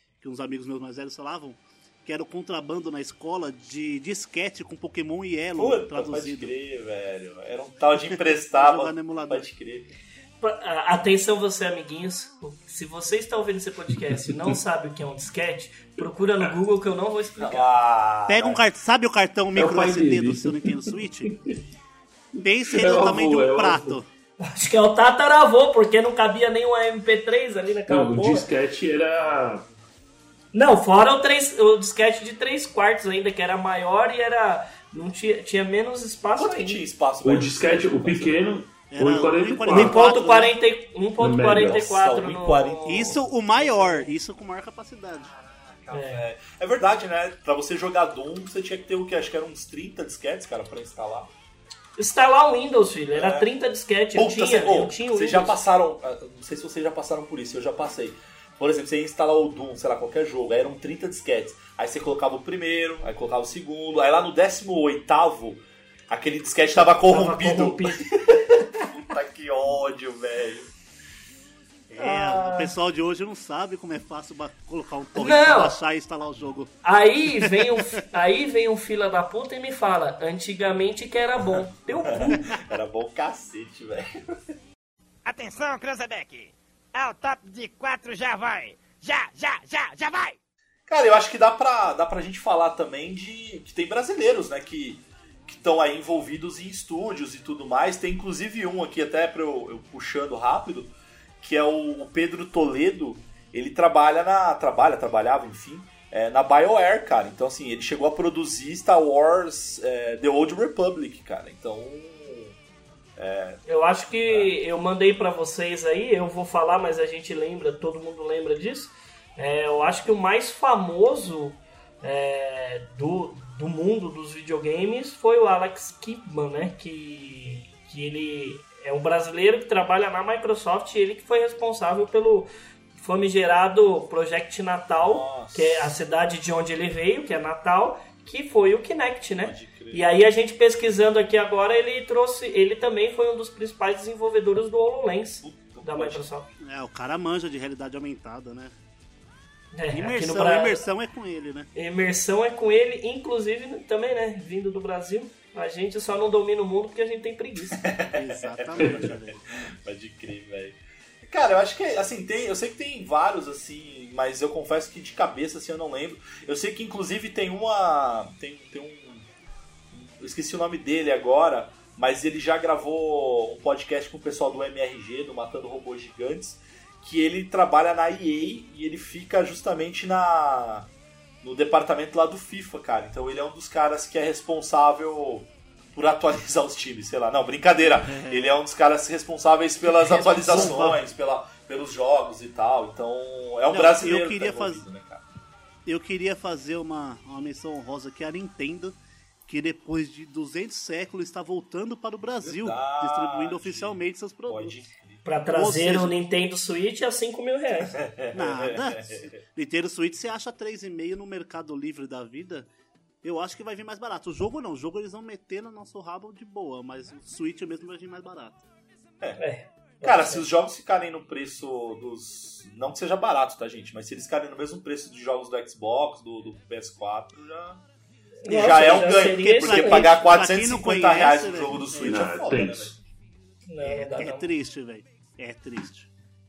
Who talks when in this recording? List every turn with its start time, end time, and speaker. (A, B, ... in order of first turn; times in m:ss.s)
0:00.2-0:06.5 A
0:05.6-0:09.9 B
0:08.0-0:09.5 A
0:10.4-0:17.7 C
0:14.1-0:14.6 D
0:17.4-0:18.6 B
0:18.3-0:21.3 A
0:19.6-0:21.6 D
0:22.4-0:24.1 A
0:22.7-0:24.0 D
0:24.4-0:28.5 C
0:27.9-0:29.6 D
0:30.5-0:36.8 C
0:36.4-0:38.5 B
0:37.2-0:40.0 D
0:38.9-0:40.6 A
0:39.7-0:44.1 C
0:41.2-0:41.9 D
0:41.6-0:43.2 B
0:42.9-0:45.3 A
0:45.6-0:51.3 B
0:45.9-0:46.3 C
0:52.0-0:55.6 C
0:53.1-0:53.5 B
0:54.1-1:10.7 B
1:07.1-1:08.6 C
1:11.9-1:16.7 A
1:12.0-1:12.7 C
1:15.2-1:15.8 C
1:16.8-1:22.4 C
1:17.4-1:17.8 A
1:22.1-1:24.4 B
1:25.2-1:30.4 E
1:30.9-1:52.6 B
1:53.2-1:53.6 B
1:53.7-2:26.5 C
1:54.3-1:54.5 B
2:15.0-2:15.9 B
2:19.4-2:20.0 B
2:25.4-2:26.2 B
2:26.6-2:28.8 A
2:29.7-2:30.8 C
2:29.9-2:31.7 A
2:31.8-2:37.8 C
2:37.8-2:49.3 B
2:38.1-2:39.4 A
2:49.9-3:00.9 B
3:01.4-3:15.2 B
3:08.0-3:08.5 A
3:09.9-3:11.1 A
3:13.7-3:14.8 A
3:15.9-3:24.8 A
3:22.4-3:25.2 B
3:25.2-3:27.9 C
3:25.5-3:26.1 A
3:27.9-3:29.3 B
3:28.3-3:32.7 A
3:33.2-3:38.6 A
3:39.4-3:40.5 C
3:40.0-3:47.8 B
3:48.4-3:50.1 C
3:48.5-3:52.9 B
3:48.6-3:52.3 A
3:52.0-3:53.0 D
3:53.7-3:54.5 C
3:53.8-3:56.1 A